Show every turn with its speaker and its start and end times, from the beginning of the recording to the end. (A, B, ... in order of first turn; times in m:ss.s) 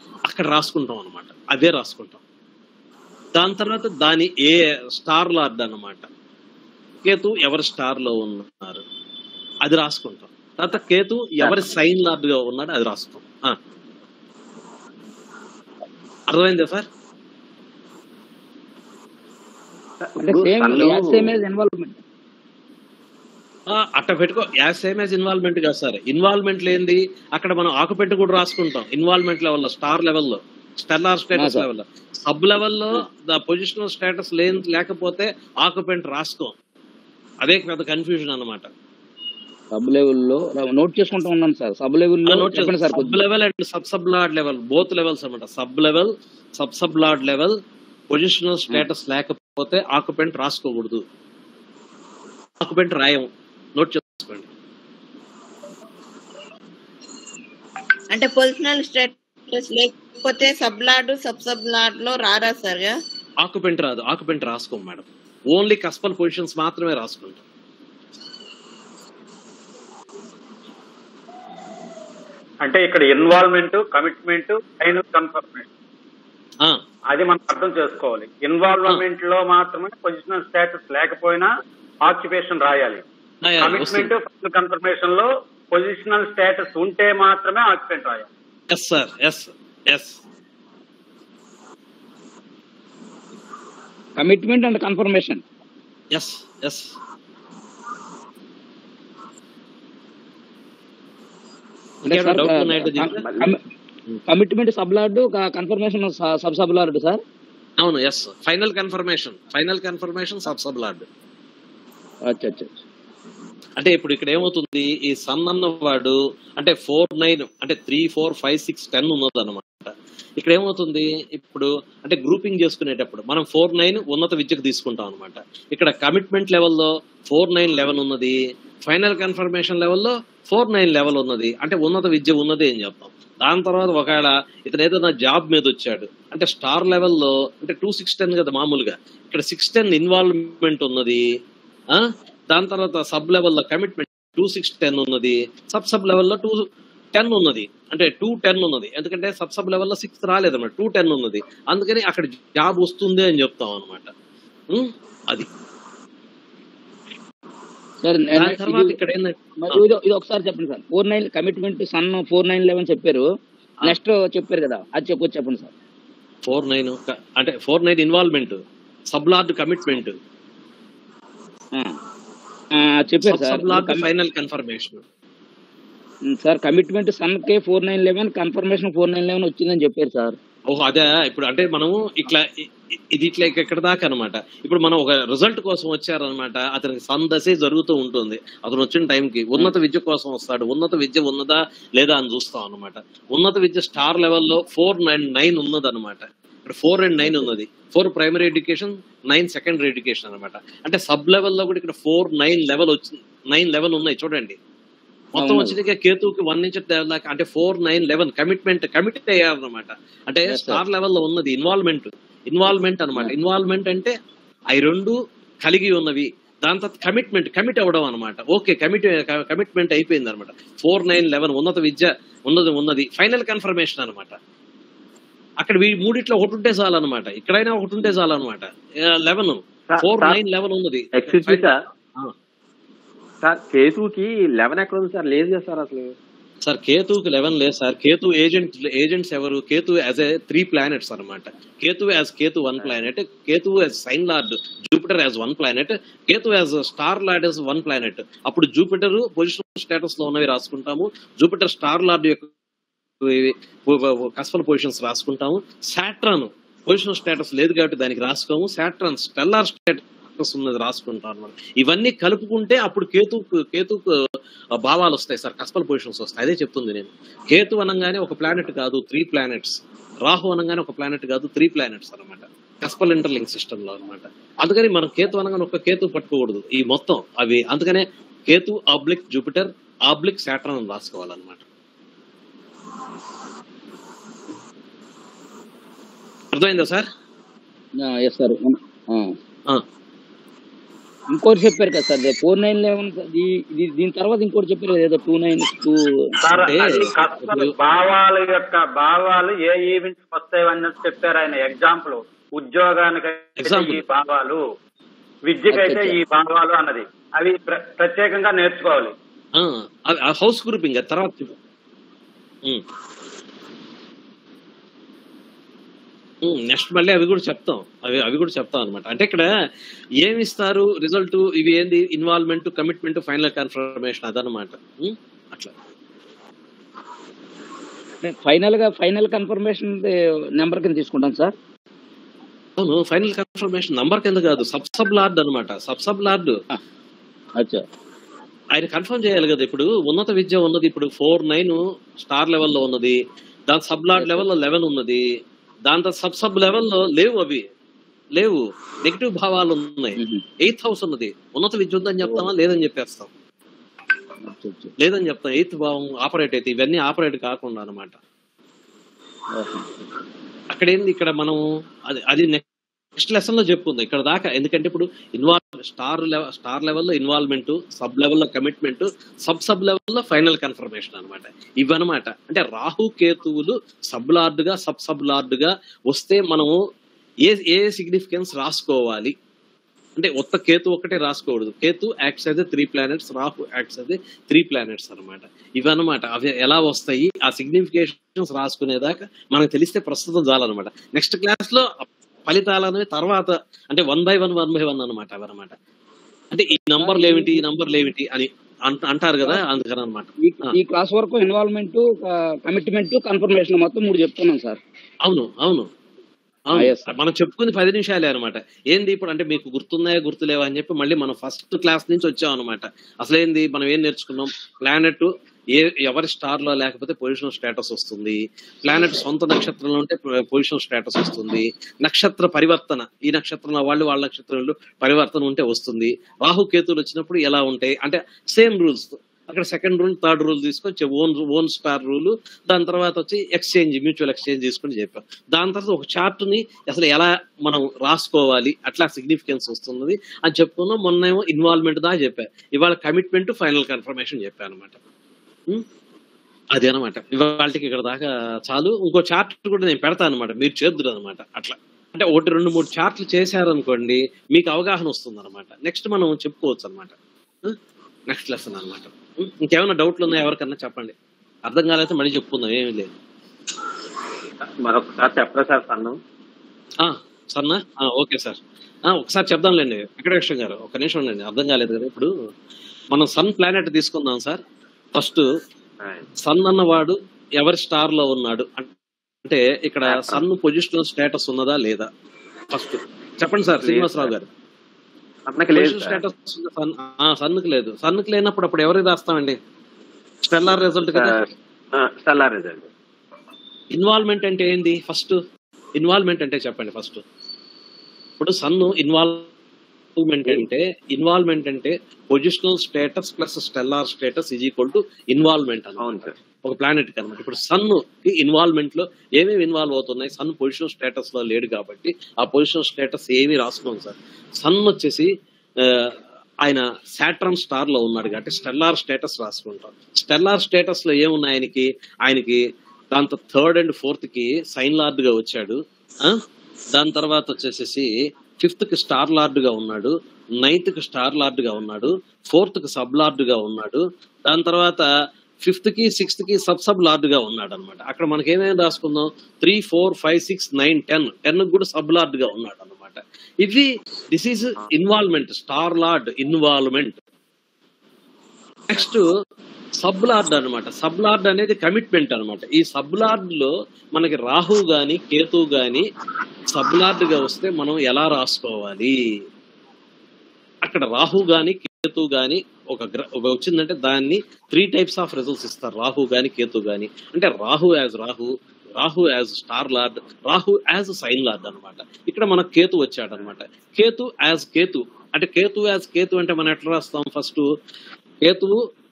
0:00.3-0:02.2 A
0:03.3-0:06.0 A
0:07.0-0:08.8 A
0:09.6-0:13.6 A
0:11.4-0:11.7 B
0:16.3-0:16.8 A
0:20.0-0:21.3 B
0:20.2-0:22.0 C
0:23.7-0:36.5 A
0:31.4-0:31.6 C
0:37.4-0:38.7 A
0:39.7-0:43.2 C
0:42.3-0:47.5 A
0:48.1-0:51.0 A
0:52.6-0:54.5 A
0:58.1-1:02.9 D
1:03.4-1:07.4 A
1:12.6-1:15.7 E
1:17.1-1:21.5 E
1:22.0-1:23.0 E
1:23.4-1:24.1 A
1:23.6-1:28.3 E
1:28.7-1:30.2 A
1:34.2-1:35.4 C
1:36.1-1:36.9 A
1:42.0-1:43.6 C
1:42.1-1:43.2 A
1:43.2-1:43.5 B
1:44.3-1:47.2 C
1:47.8-1:51.0 A
1:52.3-1:52.7 C
1:53.8-2:21.2 A
2:21.9-2:26.6 A
2:27.1-2:34.1 A
2:34.7-2:35.5 A
2:38.0-2:39.0 C
2:38.3-2:39.8 A
2:39.6-2:43.2 C
2:43.8-2:45.7 C
2:46.4-2:48.6 A
2:49.1-2:50.2 A
2:52.8-2:54.1 C
2:53.2-2:55.0 A
2:56.3-3:00.4 C
3:00.7-3:24.6 A
3:25.3-3:34.1 A
3:25.4-3:25.8 C
3:30.5-3:30.8 C
3:34.7-3:44.4 A
3:45.6-3:52.3 A
3:49.9-3:50.4 B
3:51.1-3:51.8 B
3:53.4-3:56.1 B
3:56.6-4:12.5 A
4:13.2-4:24.1 A
4:24.8-4:41.6 A
4:46.5-4:47.1 A
4:48.0-4:49.3 C
4:51.3-4:56.0 C
4:56.4-5:04.6 E
4:56.6-4:57.7 A
5:03.6-5:04.0 A
5:05.5-5:09.1 E
5:05.7-5:06.2 C
5:09.6-5:11.5 A
5:16.4-5:19.5 A
5:20.2-5:25.7 A
5:28.2-5:31.5 C
5:32.8-5:36.6 A
5:37.6-5:37.8 C
5:38.7-5:43.2 A
5:43.7-5:45.2 A
5:44.1-5:44.4 C
5:45.8-5:47.6 A
5:48.4-5:53.3 A
5:50.2-5:50.4 C
5:52.2-5:52.5 C
5:54.4-5:54.9 C
5:55.0-5:58.2 A
5:59.5-5:59.8 C
6:00.7-6:02.6 A
6:03.2-6:16.7 A
6:17.4-6:19.3 A
6:20.2-6:35.7 A
6:36.5-6:40.3 A
6:37.0-6:37.6 C
6:40.4-6:44.8 C
6:45.2-6:45.9 A
6:46.7-7:25.0 A
6:46.7-6:47.1 C
7:26.7-7:37.8 A
7:38.3-7:41.1 A
7:41.6-7:43.1 A
7:44.8-7:46.2 B
7:47.0-7:48.6 A
7:49.1-7:52.3 A
7:53.1-7:54.6 A
7:55.1-7:55.4 A
7:56.4-7:58.9 A
7:59.4-8:02.1 A
8:00.0-8:00.4 B
8:02.7-8:04.5 A
8:03.8-8:04.3 B
8:05.5-8:06.2 B
8:05.7-8:09.6 A
8:10.4-8:11.3 A
8:11.1-8:11.4 B
8:12.0-8:12.9 B
8:13.9-8:15.3 A
8:16.0-8:17.2 A
8:18.4-8:19.4 A
8:20.2-8:35.3 A
8:26.0-8:26.3 B
8:36.6-8:42.6 A
8:43.1-8:46.4 A
8:46.9-8:48.1 A
8:48.6-8:55.0 A
8:55.6-9:07.2 A
9:08.9-9:09.2 A
9:10.0-9:16.0 A
9:16.7-9:19.1 A
9:20.8-9:37.6 A
9:38.4-9:38.7 A